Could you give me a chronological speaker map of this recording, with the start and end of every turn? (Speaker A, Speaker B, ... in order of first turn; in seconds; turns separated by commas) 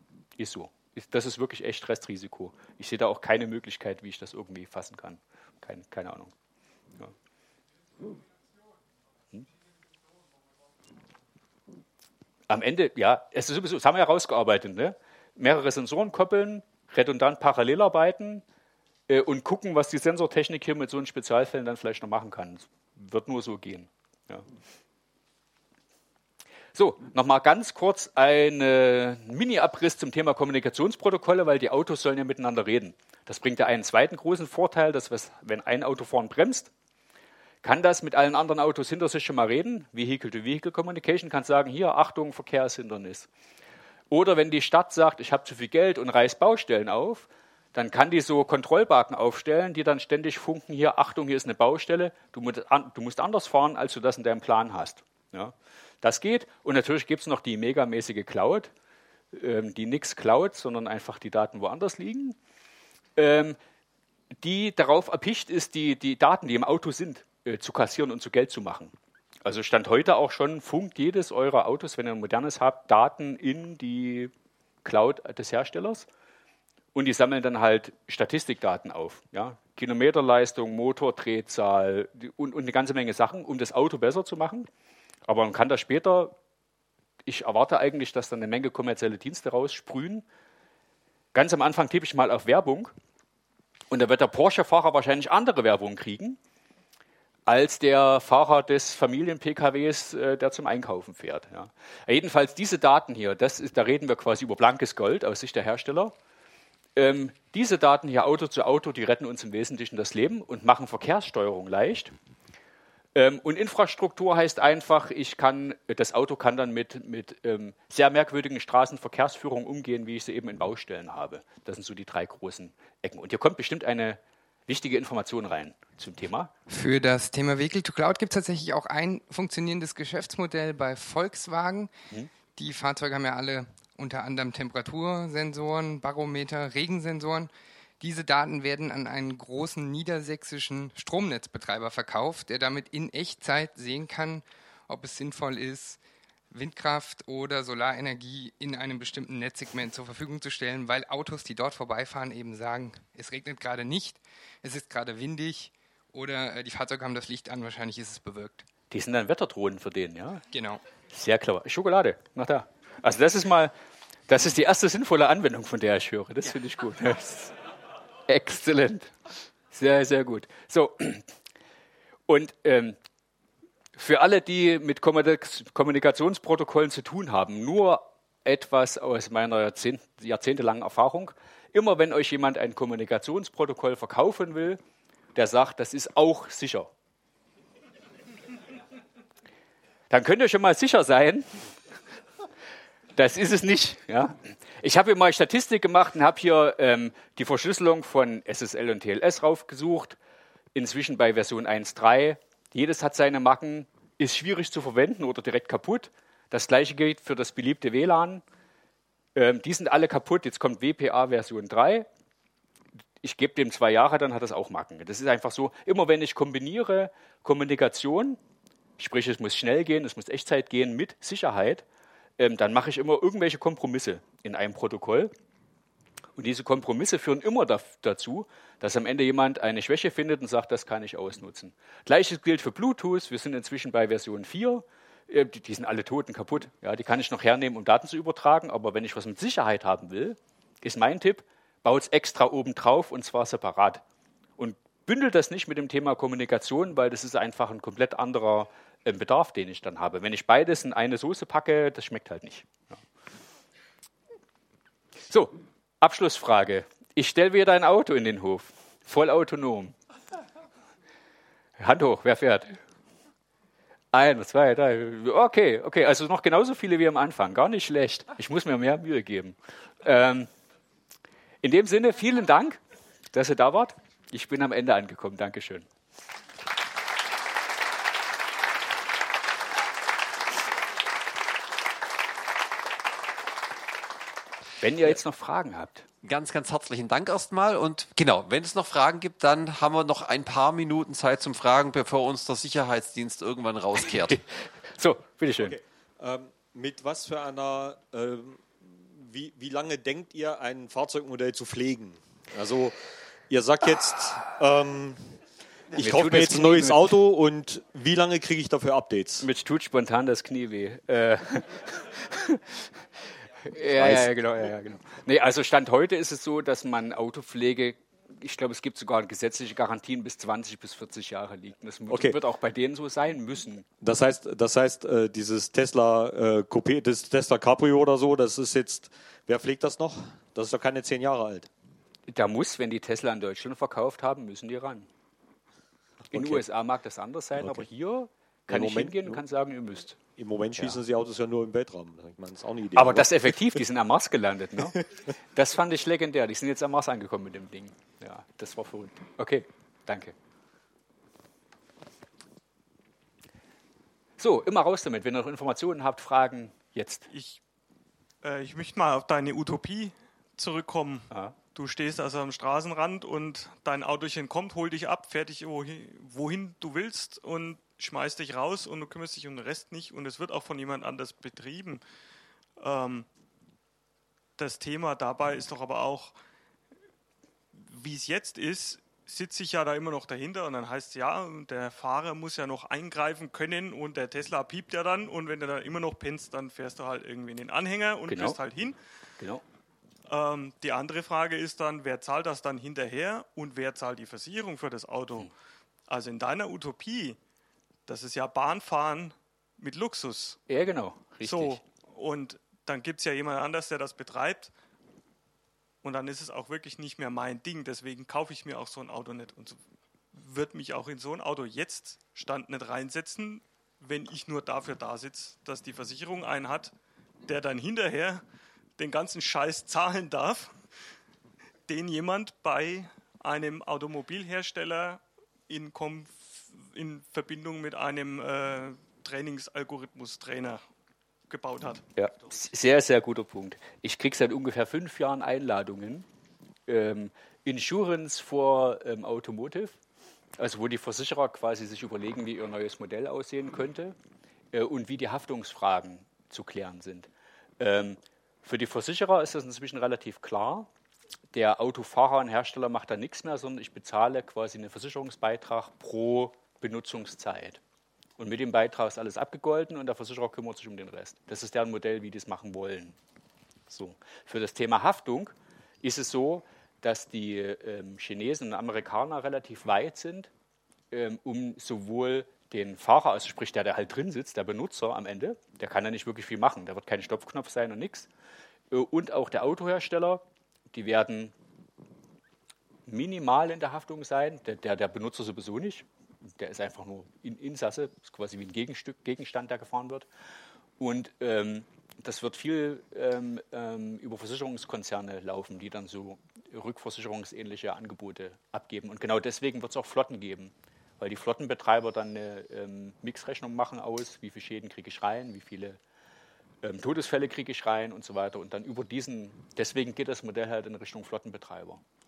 Speaker A: 0.4-6.3, Speaker A: 12.5-18.4, Speaker A: 19.1-24.4, Speaker A: 26.7-36.7, Speaker A: 37.6-43.3, Speaker A: 44.1-58.7, Speaker A: 59.3-62.4, Speaker A: 63.2-63.6, Speaker A: 64.4-68.9, Speaker A: 69.5-74.3, Speaker A: 74.8-76.1, Speaker A: 77.0-84.7, Speaker A: 85.3-86.3, Speaker A: 87.3-90.2, Speaker A: 91.3-92.9, Speaker A: 93.9-96.4, Speaker A: 97.5-106.2, Speaker A: 107.0-112.1, Speaker A: 113.2-126.5, Speaker B: 126.7-131.9, Speaker B: 132.6-146.0, Speaker B: 146.5-158.7, Speaker A: 158.9-160.4, Speaker B: 160.5-160.8, Speaker A: 161.1-163.7, Speaker A: 164.3-167.5, Speaker A: 168.3-169.2, Speaker A: 169.7-171.3, Speaker A: 172.3-173.0, Speaker A: 174.0-184.8, Speaker A: 185.3-186.9, Speaker A: 190.1-191.7, Speaker A: 193.2-200.2, Speaker A: 200.7-208.4, Speaker A: 209.4-212.1, Speaker A: 213.2-218.4, Speaker A: 219.0-221.8, Speaker A: 222.4-225.3, Speaker A: 226.4-244.0, Speaker A: 244.6-252.9, Speaker A: 255.3-259.9, Speaker A: 261.8-262.8, Speaker A: 264.1-270.5, Speaker A: 271.6-272.8, Speaker A: 273.3-275.9, Speaker A: 284.8-286.1, Speaker C: 286.2-294.4, Speaker A: 294.3-295.8, Speaker D: 295.6-305.4, Speaker D: 305.9-309.4, Speaker A: 305.9-307.2, Speaker A: 309.4-312.8, Speaker A: 313.6-323.9, Speaker D: 314.0-314.3, Speaker D: 322.1-322.4, Speaker D: 324.0-331.7, Speaker A: 332.3-335.1, Speaker A: 336.3-340.2, Speaker D: 336.3-336.6, Speaker D: 337.6-337.9, Speaker D: 338.7-339.4, Speaker D: 340.4-343.6, Speaker A: 342.9-345.0, Speaker A: 345.6-350.3, Speaker A: 354.4-357.3, Speaker E: 357.3-357.6, Speaker E: 358.4-372.0, Speaker E: 372.8-373.3, Speaker E: 374.6-376.4, Speaker E: 377.7-389.0, Speaker A: 388.3-388.6, Speaker E: 390.3-395.5, Speaker E: 396.1-397.4, Speaker E: 398.1-400.6, Speaker A: 400.7-401.8, Speaker E: 401.4-404.7, Speaker E: 406.0-409.8, Speaker E: 410.3-416.9, Speaker E: 417.4-418.4, Speaker E: 419.0-420.8, Speaker E: 421.9-430.8, Speaker E: 431.5-432.0, Speaker A: 432.2-436.3, Speaker A: 436.9-440.0, Speaker A: 440.6-444.2, Speaker A: 444.7-447.3, Speaker A: 447.8-450.9, Speaker A: 451.5-457.8, Speaker A: 458.4-463.2, Speaker A: 463.9-470.5, Speaker A: 471.1-478.3, Speaker A: 478.9-481.5, Speaker A: 483.1-486.1, Speaker A: 486.6-490.3, Speaker A: 491.0-506.0, Speaker A: 506.8-512.0